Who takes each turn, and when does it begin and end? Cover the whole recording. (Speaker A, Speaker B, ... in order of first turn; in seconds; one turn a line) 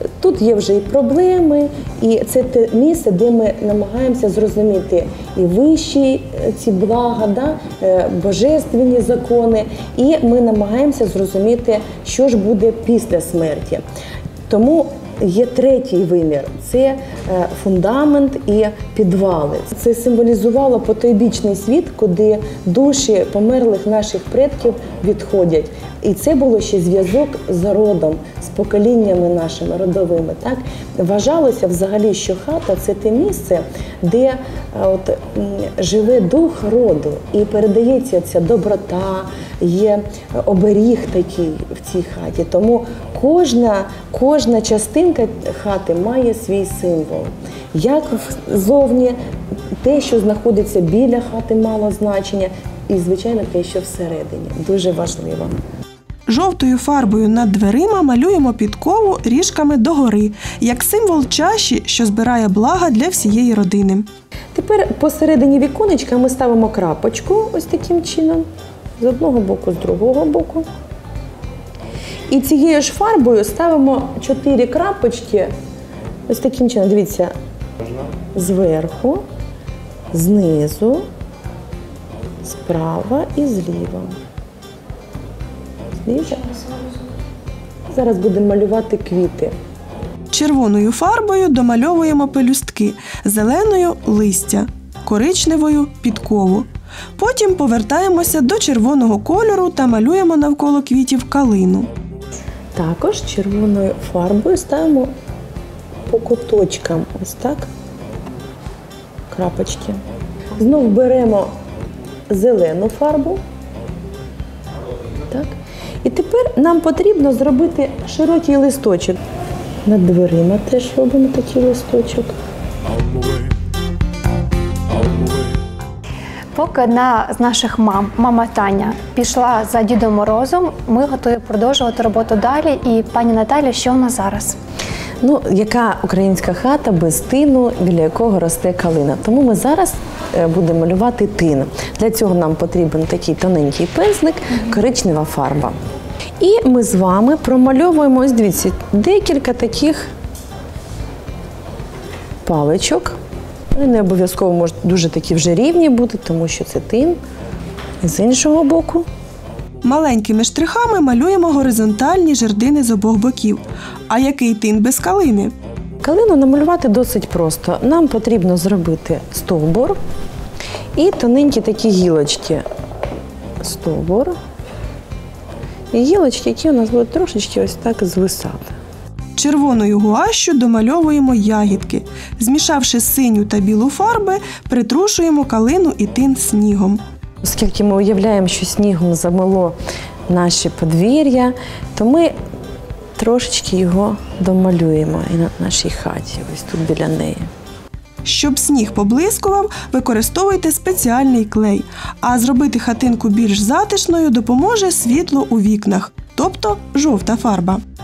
Speaker A: 0.2-13.8
Speaker A: 14.5-49.2
Speaker A: 49.8-55.5
Speaker B: 56.3-64.1
Speaker A: 64.5-68.5
Speaker A: 69.0-70.7
Speaker A: 72.3-75.5
Speaker A: 76.3-77.3
Speaker A: 78.3-79.2
Speaker A: 80.1-81.0
Speaker A: 82.4-84.2
Speaker A: 86.0-86.5
Speaker A: 87.9-89.5
Speaker B: 90.3-101.9
Speaker A: 102.8-105.1
Speaker A: 106.1-107.7
Speaker A: 109.3-110.0
Speaker A: 110.6-111.5
Speaker A: 112.3-113.4
Speaker A: 115.3-119.2
Speaker A: 119.8-122.3
Speaker C: 126.5-134.6
Speaker A: 135.2-145.8
Speaker A: 146.4-150.1
Speaker A: 152.4-153.2
Speaker A: 153.7-157.2
Speaker A: 158.0-159.1
Speaker B: 159.8-165.5
Speaker A: 166.0-170.0
Speaker A: 171.0-172.6
Speaker A: 173.6-174.3
Speaker A: 175.9-178.8
Speaker B: 179.4-187.0
Speaker A: 187.4-189.8
Speaker A: 190.3-192.3
Speaker A: 193.2-197.5
Speaker B: 198.2-207.8